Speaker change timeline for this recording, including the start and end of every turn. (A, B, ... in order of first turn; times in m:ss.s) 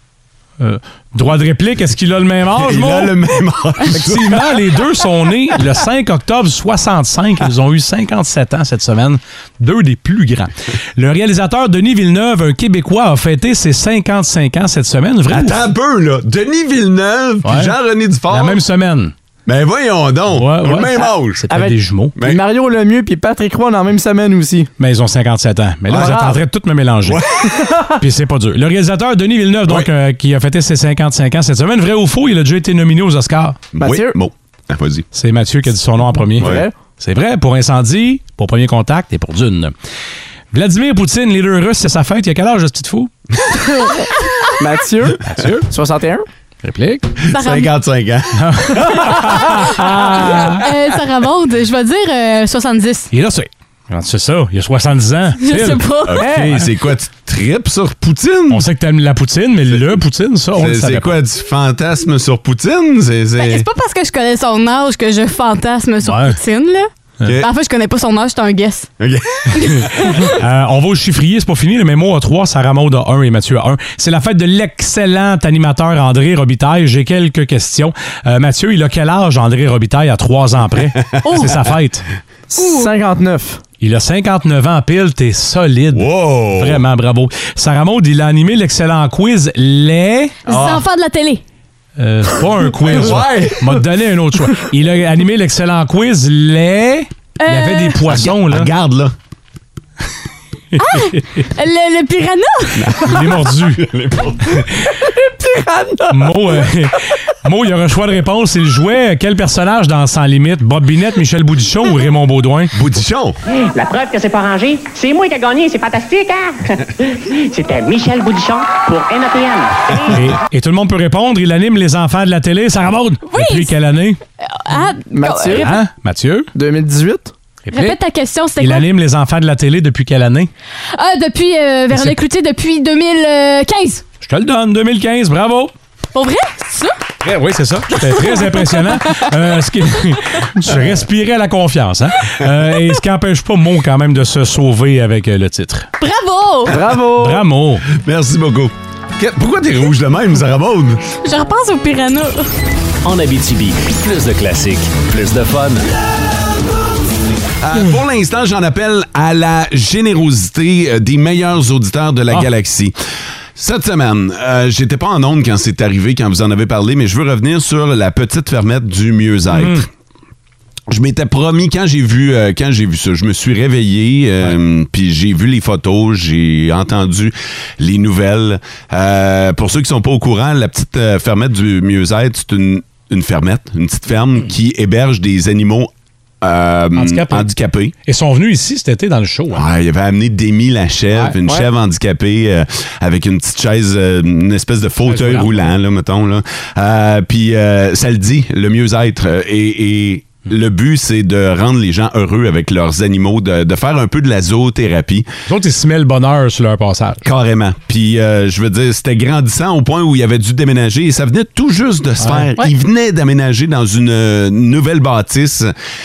0:00.6-0:03.1 A
0:02.6-0:04.7 B
0:03.9-0:15.6 A
0:15.3-0:18.6 B
0:17.4-0:17.7 A
0:18.3-0:19.1 A
0:19.4-0:21.5 B
0:20.3-0:22.2 A
0:21.5-0:24.7 C
0:24.8-0:27.2 A
0:25.9-0:26.2 B
0:25.9-0:26.4 C
0:27.0-0:27.7 B
0:27.7-0:27.9 C
0:28.0-0:33.6 A
0:33.8-0:35.1 B
0:33.8-0:34.2 C
0:35.1-0:39.7 A
0:36.4-0:36.8 C
0:40.5-0:43.1 A
0:44.6-0:46.3 C
0:45.2-0:45.6 A
0:46.6-0:47.1 A
0:47.3-0:49.2 B
0:47.3-0:47.7 D
0:48.4-0:50.6 A
0:49.0-0:49.6 D
0:50.5-0:53.1 D
0:53.1-0:55.9 A
0:55.4-0:56.2 D
0:56.1-0:58.7 B
0:56.2-0:56.6 C
0:58.5-1:01.2 A
1:00.5-1:03.7 B
1:03.4-1:06.9 D
1:06.0-1:06.4 A
1:07.4-1:08.9 D
1:09.0-1:10.0 B
1:09.6-1:10.3 D
1:10.0-1:22.0 A
1:21.2-1:21.6 D
1:22.5-1:23.6 C
1:22.6-1:22.9 D
1:23.8-1:30.4 A
1:25.9-1:26.8 B
1:30.4-1:31.4 D
1:30.5-1:30.8 B
1:32.0-1:38.7 A
1:32.8-1:33.8 B
1:37.4-1:38.0 D
1:38.1-1:39.1 B
1:40.7-1:41.4 A
1:40.8-1:42.8 D
1:42.8-1:44.6 B
1:43.0-1:43.8 A
1:45.1-1:46.6 C
1:46.1-1:52.7 A
1:52.7-1:53.4 B
1:53.7-2:00.1 E
2:00.1-2:04.2 A
2:03.3-2:03.7 D
2:04.4-2:05.7 D
2:05.1-2:05.8 C
2:05.5-2:06.5 A
2:06.5-2:07.3 C
2:07.6-2:08.0 A
2:07.7-2:08.8 D
2:08.6-2:10.5 A
2:10.9-2:14.0 D
2:14.2-2:15.7 A
2:16.1-2:17.0 D
2:17.2-2:25.9 A
2:18.0-2:19.3 D
2:26.0-2:26.7 D
2:26.7-2:27.5 C
2:27.1-2:27.8 A
2:27.9-2:31.0 B
2:31.2-2:32.5 D
2:33.0-2:35.9 F
2:37.6-2:42.9 B
2:43.6-2:49.8 B
2:49.5-2:49.8 A
2:50.9-3:05.9 B
3:06.4-3:07.9 B
3:06.9-3:07.5 A
3:08.0-3:09.7 A
3:09.5-3:25.3 B
3:15.0-3:15.7 A
3:25.5-3:27.2 A
3:27.2-3:35.7 B
3:32.2-3:32.5 A